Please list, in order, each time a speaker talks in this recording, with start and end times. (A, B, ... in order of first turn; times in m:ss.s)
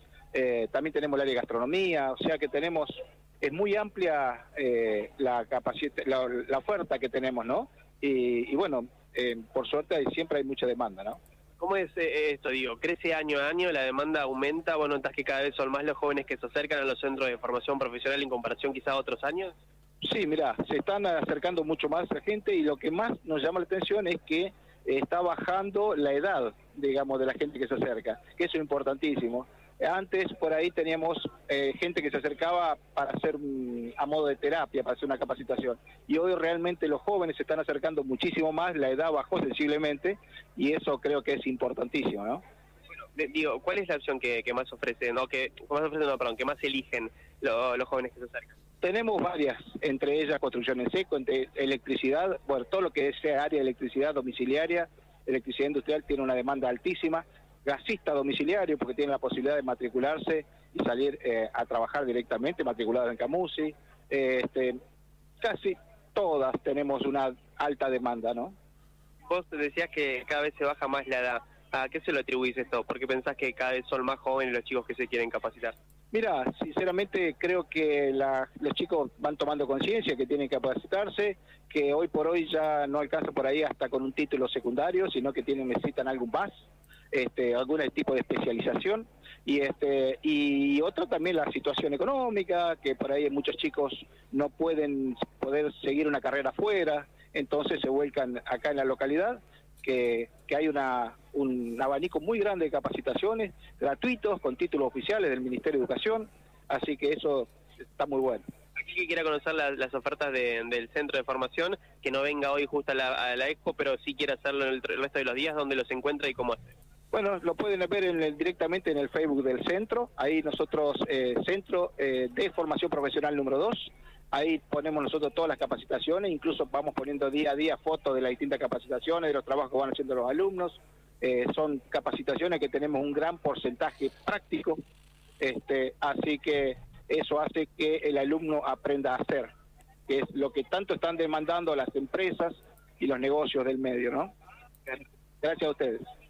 0:00.3-0:11.2 A
0:11.6-0:19.6 B
0:20.0-0:42.4 A
0:43.1-0:48.5 B
0:48.8-1:04.8 A
1:05.4-1:08.5 A
1:09.3-1:15.7 B
1:16.1-1:26.5 A
1:27.1-1:48.4 A
1:48.8-1:56.7 B
1:57.1-2:14.8 A
2:15.4-2:19.5 A
2:20.1-2:24.3 A
2:24.9-2:26.0 A